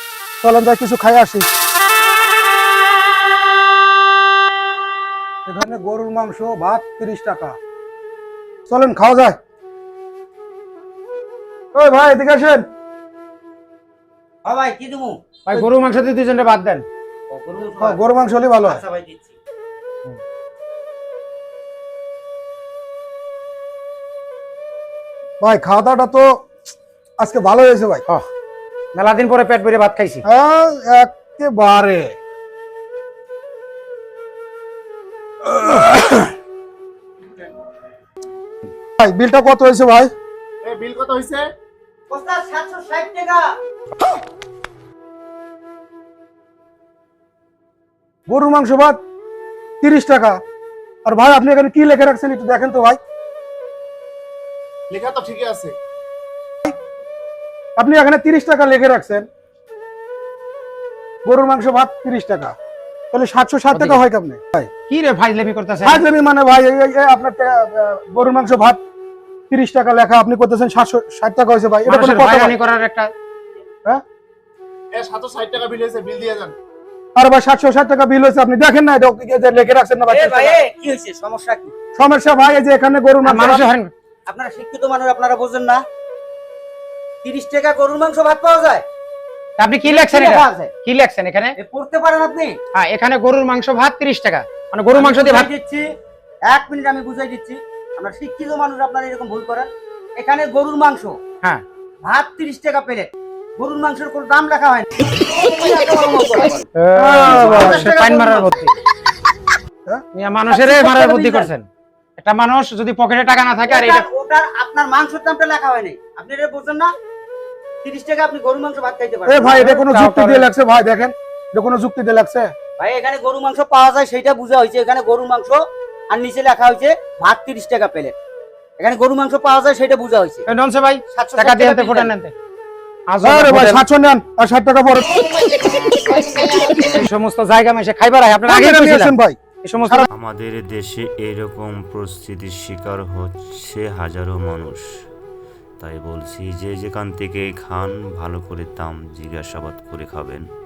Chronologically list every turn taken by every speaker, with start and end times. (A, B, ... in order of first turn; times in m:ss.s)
0:00.4-0:01.5 A
0:05.5-0:07.6 A
0:08.7-0:09.4 A
0:11.8-0:12.6 A
0:14.4-0:15.2 B
0:15.5-0:16.8 C
0:17.3-0:18.1 B
0:17.8-0:18.8 A
0:18.6-0:19.3 B
0:25.4-0:26.5 A
0:27.2-0:28.0 A
0:28.9-0:30.2 C
0:30.2-0:32.2 A
0:35.4-0:36.3 A
0:39.0-0:40.1 A
0:40.6-0:41.5 D
0:42.1-0:43.5 B
0:48.3-0:49.0 A
0:49.8-0:50.4 A
0:51.0-0:53.0 A
0:54.9-0:55.8 D
0:57.8-0:59.3 A
1:01.2-1:02.6 A
1:03.1-1:04.7 A
1:03.7-1:04.0 C
1:04.9-1:06.0 C
1:05.8-1:08.8 A
1:09.5-1:12.6 A
1:11.9-1:13.1 C
1:14.9-1:16.6 D
1:17.2-1:20.6 A
1:20.1-1:21.7 B
1:22.0-1:23.6 A
1:23.2-1:23.9 C
1:23.4-1:23.7 B
1:24.3-1:25.8 B
1:27.2-1:28.8 B
1:29.6-1:31.6 C
1:29.8-1:30.7 B
1:31.6-1:32.6 B
1:32.7-1:35.5 C
1:34.9-1:35.8 B
1:36.5-1:41.2 B
1:42.0-1:46.7 B
1:46.8-1:48.8 C
1:47.0-1:47.9 A
1:47.2-1:48.5 B
1:50.2-1:51.6 C
1:50.5-1:51.5 B
1:52.2-1:54.0 C
1:53.7-1:56.9 B
1:57.8-1:59.6 B
1:59.3-2:02.5 A
1:59.5-2:00.5 C
2:02.8-2:08.1 B
2:08.8-2:10.5 B
2:10.5-2:12.3 C
2:11.1-2:12.1 B
2:13.1-2:13.8 C
2:13.2-2:15.2 A
2:16.8-2:20.1 C
2:18.4-2:20.1 A
2:20.1-2:24.8 E
2:25.8-2:30.4 E